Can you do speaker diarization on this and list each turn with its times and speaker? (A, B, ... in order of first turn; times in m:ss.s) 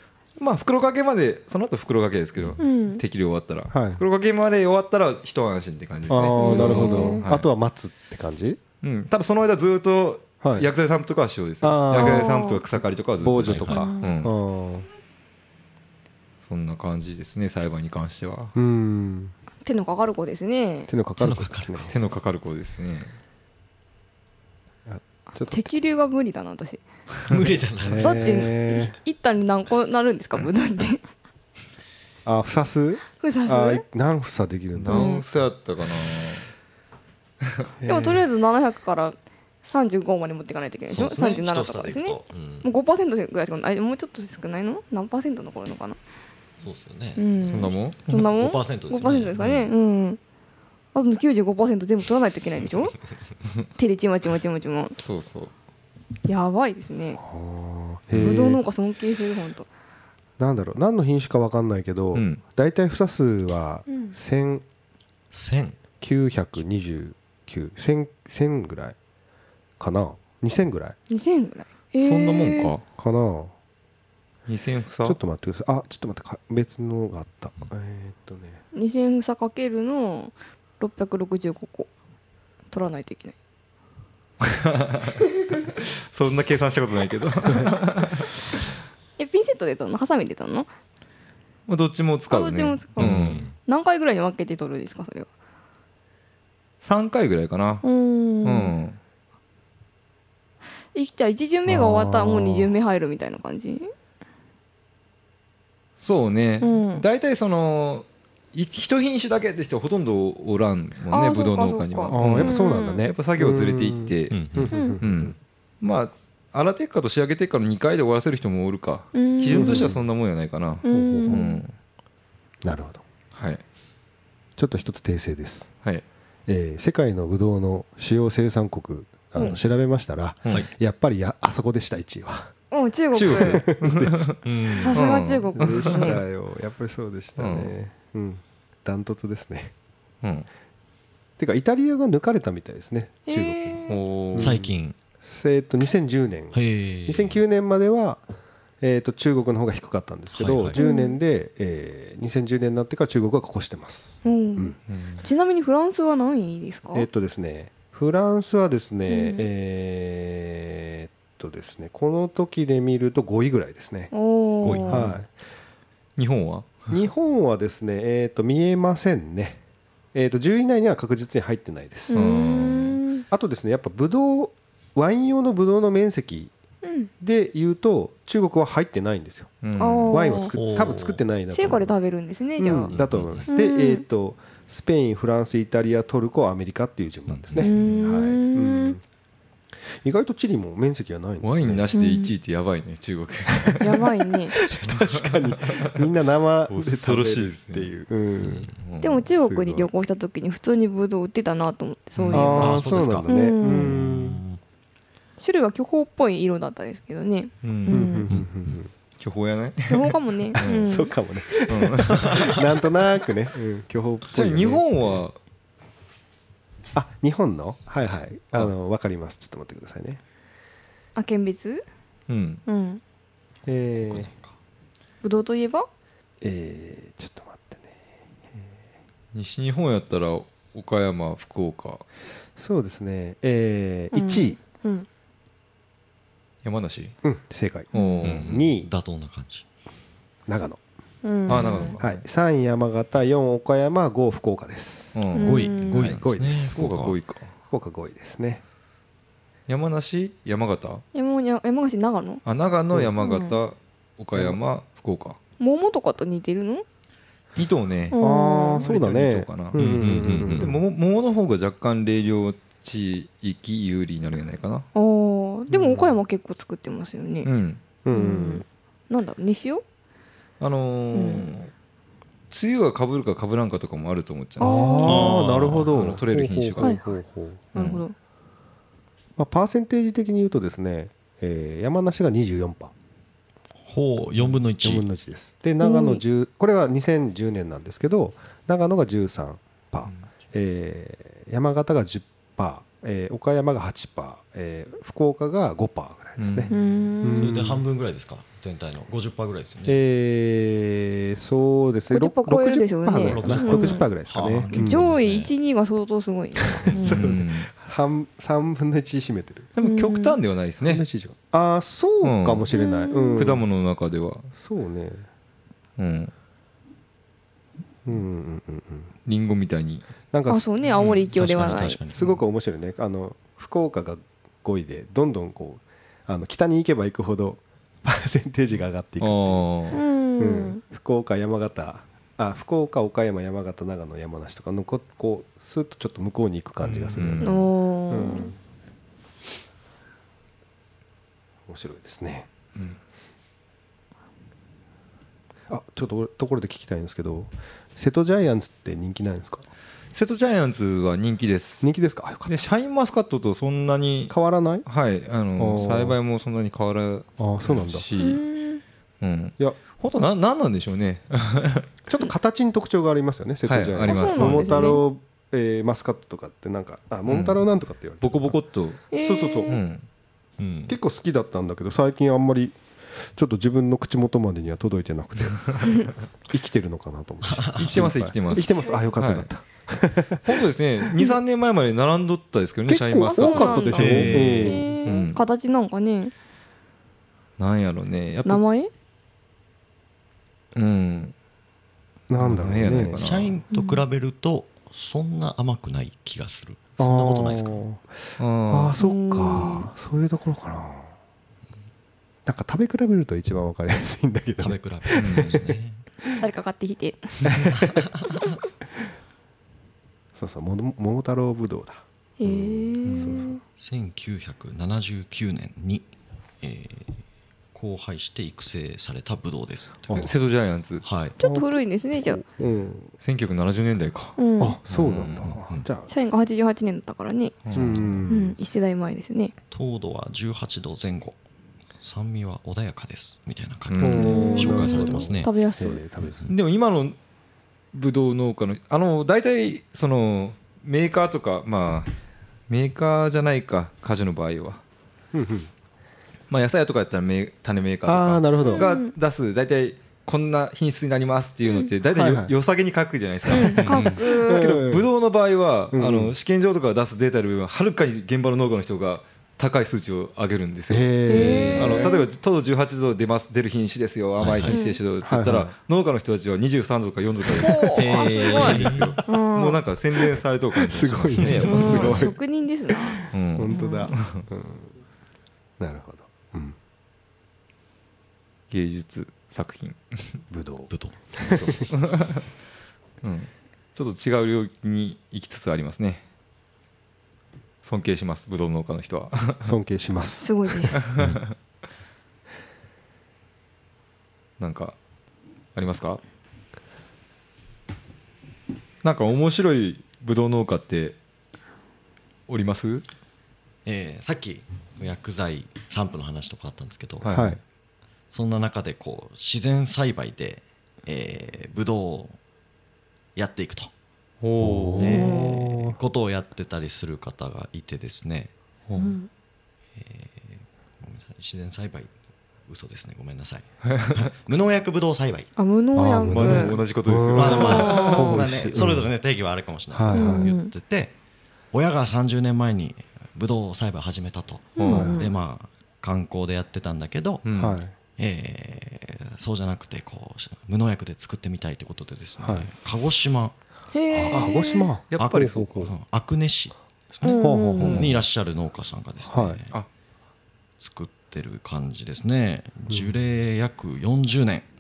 0:00.4-0:07.5 A
0:02.6-0:03.0 B
0:03.7-0:04.0 C
0:06.1-0:08.6 C
0:06.4-0:07.2 B
0:06.6-0:07.0 D
0:08.8-0:14.3 A
0:10.4-0:10.7 C
0:11.6-0:12.3 C
0:11.9-0:12.6 B
0:13.2-0:14.9 C
0:13.4-0:13.9 D
0:13.8-0:14.1 B
0:16.4-0:18.5 A
0:18.6-0:19.3 C
0:19.6-0:20.9 B
0:20.9-0:21.9 C
0:21.2-0:22.0 D
0:21.9-0:23.1 A
0:24.9-0:25.7 C
0:25.4-0:26.8 B
0:27.3-0:28.5 D
0:27.8-0:28.9 C
0:28.0-0:31.0 B
0:32.2-0:35.2 C
0:33.2-0:33.8 B
0:34.8-0:36.5 A
0:34.9-0:35.2 B
0:37.8-0:38.3 C
0:37.9-0:46.0 B
0:40.9-0:42.7 D
0:46.6-0:49.7 D
0:47.2-0:50.2 B
0:47.5-0:48.1 A
0:50.9-0:53.0 B
0:53.8-0:55.0 B
0:55.0-0:55.5 A
0:56.3-0:57.2 B
0:57.2-0:58.6 C
0:58.1-0:58.4 A
0:58.2-0:59.7 B
1:00.4-1:04.6 C
1:02.1-1:02.4 A
1:03.9-1:04.1 B
1:05.3-1:05.8 D
1:06.0-1:09.0 C
1:09.8-1:11.0 C
1:11.1-1:12.7 B
1:12.0-1:12.8 A
1:13.0-1:13.5 C
1:14.5-1:15.2 A
1:15.0-1:18.6 C
1:18.7-1:21.9 B
1:22.7-1:23.4 B
1:24.4-1:25.2 A
1:25.8-1:28.4 A
1:29.2-1:30.7 B
1:31.7-1:33.5 A
1:32.3-1:35.3 B
1:33.0-1:33.6 D
1:36.8-1:37.9 A
1:37.8-1:38.7 B
1:38.4-1:39.0 A
1:40.9-1:43.9 B
1:41.7-1:42.7 C
1:46.0-2:01.7 A
1:46.6-1:47.0 B
1:51.1-1:53.0 B
1:52.1-1:55.4 C
1:54.3-1:54.7 D
1:59.1-1:59.9 B
1:59.5-2:00.0 C
2:00.8-2:01.6 B
2:00.9-2:01.5 C
2:02.6-2:03.0 C
2:03.3-2:03.6 A
2:04.6-2:05.7 C
2:06.5-2:12.5 C
2:12.7-2:13.7 B
2:13.1-2:16.2 A
2:13.3-2:14.3 C
2:14.4-2:15.0 D
2:14.8-2:16.2 B
2:15.6-2:19.7 C
2:17.4-2:17.7 A
2:21.4-2:28.2 C
2:23.3-2:24.0 B
2:23.9-2:24.6 A
2:24.4-2:25.0 D
2:26.5-2:27.4 D
2:28.8-2:34.8 C
2:30.3-2:30.8 D
2:30.8-2:31.2 B
2:34.2-2:37.1 B
2:34.9-2:35.2 A
2:36.9-2:44.1 C
2:39.1-2:39.5 B
2:44.1-2:45.1 B
2:44.6-2:45.1 D
2:44.8-2:45.3 C
2:46.2-2:46.9 A
2:46.9-2:49.6 C
2:50.1-2:52.2 C
2:52.1-2:53.2 B
2:52.1-2:53.0 A
2:53.3-2:56.5 C
2:56.8-2:57.1 B
2:57.2-3:01.9 C
2:59.6-3:00.3 A
2:59.8-3:00.5 B
3:00.5-3:01.2 D
3:01.5-3:02.9 B
3:02.6-3:09.0 C
3:02.9-3:03.5 D
3:03.5-3:04.0 B
3:07.3-3:07.7 D
3:07.6-3:09.0 B
3:07.7-3:08.1 A
3:09.8-3:11.9 C
3:11.4-3:14.1 A
3:11.9-3:12.3 B
3:13.6-3:13.8 C
3:13.8-3:14.6 B
3:14.5-3:18.7 C
3:14.7-3:15.2 D
3:14.9-3:16.1 A
3:16.7-3:17.9 A
3:18.4-3:18.7 D
3:18.8-3:19.2 A
3:19.0-3:24.0 B
3:19.3-3:19.9 C
3:22.2-3:22.6 A
3:22.3-3:24.4 C
3:22.5-3:24.6 D
3:25.4-3:28.3 B
3:27.6-3:28.0 A
3:27.9-3:28.9 C
3:28.3-3:28.8 D
3:29.2-3:31.0 A
3:29.9-3:31.1 B
3:30.6-3:35.2 C
3:31.7-3:32.5 A
3:32.1-3:32.5 D
3:34.3-3:35.4 A
3:36.9-3:40.2 C
3:41.2-3:41.8 B
3:42.3-3:42.6 A
3:42.7-3:43.0 B
3:43.7-3:44.3 C
3:44.0-3:44.6 D
3:45.2-3:45.9 B
3:46.4-3:48.8 C
3:49.3-3:52.0 A
3:52.6-3:54.6 C
3:54.1-3:55.1 B
3:56.6-3:57.1 A
3:57.2-3:58.9 C
3:57.9-3:58.3 B
3:57.9-3:58.5 A
3:58.2-3:59.6 D
4:00.5-4:00.8 C
4:01.2-4:02.0 B
4:01.5-4:02.1 A
4:02.0-4:05.2 C
4:05.2-4:07.5 A
4:05.3-4:06.1 B
4:05.4-4:07.2 D
4:06.0-4:06.8 C
4:07.7-4:08.6 C
4:09.7-4:11.0 A
4:11.1-4:12.4 B
4:12.4-4:15.4 A
4:13.2-4:13.6 B
4:15.6-4:16.8 B
4:17.6-4:18.2 A
4:18.1-4:18.8 B
4:18.2-4:20.8 C
4:18.7-4:24.9 A
4:19.8-4:20.8 D
4:25.0-4:27.5 B
4:25.7-4:26.2 C
4:27.4-4:27.8 A
4:28.0-4:28.6 C
4:28.1-4:29.8 B
4:30.6-4:31.7 A
4:31.1-4:31.5 B
4:32.5-4:34.8 A
4:34.6-4:35.4 B
4:34.6-4:37.6 C
4:35.0-4:36.0 D
4:35.8-4:37.0 A
4:36.8-4:37.0 B
4:37.7-4:38.0 A
4:37.7-4:38.1 B
4:39.4-4:42.9 C
4:43.9-4:45.1 D
4:44.8-4:57.8 C
4:45.8-4:46.2 B
4:56.4-4:56.7 A
4:56.7-4:57.5 B
4:57.4-5:00.0 D
4:59.9-5:05.0 C
5:02.1-5:04.1 B
5:03.2-5:05.5 D
5:04.7-5:07.2 B
5:06.7-5:09.7 C
5:07.0-5:07.7 A
5:09.8-5:11.0 A
5:09.8-5:10.4 B
5:10.8-5:13.6 C
5:12.2-5:12.7 A
5:12.7-5:13.6 B
5:13.3-5:14.5 A
5:14.5-5:15.3 C
5:16.0-5:16.3 A
5:18.0-5:19.1 C
5:19.3-5:20.1 A
5:20.3-5:20.7 C
5:20.5-5:22.0 B
5:21.3-5:22.4 D
5:22.1-5:38.6 C
5:29.2-5:30.0 A
5:29.9-5:30.8 B
5:36.8-5:37.6 A
5:37.4-5:38.5 B
5:41.7-5:42.5 C
5:45.7-5:49.7 C
5:50.1-5:51.9 A
5:51.8-5:52.5 C
5:52.4-5:54.3 A
5:54.3-5:54.9 C
5:54.8-5:58.4 A
5:55.6-5:56.2 C
5:57.4-5:58.1 C
5:58.2-5:58.8 B
5:59.2-6:01.9 A
6:02.1-6:08.6 C
6:03.7-6:05.0 A
6:04.1-6:05.0 B
6:07.3-6:07.6 A
6:08.2-6:09.0 A
6:09.1-6:09.8 B
6:09.1-6:09.8 C
6:09.7-6:10.0 A
6:10.6-6:11.0 D
6:10.9-6:21.4 C
6:17.4-6:18.0 D
6:17.8-6:19.5 A
6:18.6-6:18.9 B
6:20.4-6:24.4 A
6:22.9-6:25.0 C
6:23.2-6:26.3 B
6:24.0-6:24.8 D
6:25.0-6:25.4 A
6:27.6-6:28.6 A
6:28.4-6:28.9 B
6:30.8-6:31.3 A
6:32.3-6:33.2 C
6:32.4-6:33.6 A
6:33.1-6:37.8 D
6:33.7-6:34.0 B
6:37.0-6:41.1 C
6:38.4-6:39.0 A
6:39.0-6:39.9 B
6:42.5-6:45.8 C
6:44.6-6:46.0 D
6:45.2-6:45.6 A
6:46.4-6:47.7 B
6:47.4-6:48.1 C
6:47.8-6:48.3 D
6:50.4-6:53.6 C
6:52.4-6:53.6 B
6:53.1-6:53.4 A
6:53.7-6:56.1 D
6:56.6-6:57.2 D
6:57.7-7:00.3 D
7:00.1-7:00.4 C
7:00.1-7:01.0 A
7:01.0-7:01.4 D
7:01.4-7:02.4 B
7:01.4-7:03.1 C
7:03.2-7:04.4 A
7:04.4-7:04.8 B
7:04.6-7:06.1 C
7:04.9-7:05.6 A
7:05.4-7:05.9 D
7:06.1-7:07.6 B
7:07.6-7:08.2 A
7:07.7-7:08.6 C
7:08.3-7:09.5 B
7:09.7-7:11.4 D
7:12.0-7:15.5 D
7:13.9-7:14.5 A
7:14.0-7:16.4 C
7:14.2-7:16.0 B
7:16.2-7:16.5 D
7:16.5-7:17.2 A
7:17.9-7:22.1 A
7:22.7-7:24.8 A
7:25.3-7:25.7 C
7:26.5-7:41.2 A
7:28.0-7:28.9 C
7:28.6-7:29.1 B
7:32.1-7:32.5 C
7:33.5-7:34.7 B
7:33.5-7:35.1 C
7:33.8-7:34.2 D
7:35.9-7:36.3 C
7:40.9-7:42.1 C
7:41.3-7:42.3 B
7:41.7-7:52.3 A
7:44.4-7:44.8 D
7:44.7-7:45.0 B
7:45.2-7:45.7 C
7:47.6-7:49.8 B
7:48.0-7:49.2 D
7:50.8-7:52.4 C
7:51.3-7:52.2 D
7:51.6-7:54.1 B
7:52.9-7:54.9 C
7:53.3-7:54.5 A
7:55.8-7:56.8 C
7:58.7-8:00.4 A
8:00.5-8:01.9 C
8:00.9-8:01.8 D
8:01.5-8:02.4 A
8:03.2-8:06.2 A
8:07.8-8:09.7 A
8:09.6-8:10.5 C
8:10.4-8:11.0 B
8:11.0-8:11.5 A
8:14.6-8:15.0 A
8:15.8-8:16.2 A
8:19.0-8:21.2 A
8:22.5-8:23.0 A
8:23.8-8:27.5 D
8:27.2-8:27.6 A
8:27.3-8:27.6 C
8:28.3-8:32.4 D
8:33.4-8:33.9 D
8:34.4-8:35.3 A
8:34.6-8:36.0 C
8:35.0-8:38.5 D
8:35.1-8:35.6 B
8:39.0-8:39.3 B
8:40.0-8:42.1 D
8:42.7-8:45.5 D
8:43.8-8:44.3 A
8:45.6-8:46.8 B
8:46.0-8:49.1 C
8:46.3-8:48.8 A
8:47.4-8:51.1 D
8:47.5-8:48.4 B
8:49.9-8:50.5 C
8:50.1-8:50.7 B
8:51.7-8:57.5 D
8:54.8-8:55.3 B
8:54.8-8:55.1 A
8:54.9-8:55.2 C
8:57.4-8:57.8 A
8:57.6-8:58.0 C
8:58.2-9:03.6 D
9:02.4-9:02.7 C
9:03.9-9:04.9 B
9:04.1-9:05.9 C
9:05.1-9:05.7 A
9:05.2-9:09.7 D
9:07.2-9:08.0 B
9:07.4-9:08.2 C
9:07.8-9:08.2 A
9:09.3-9:09.6 C
9:10.8-9:14.7 D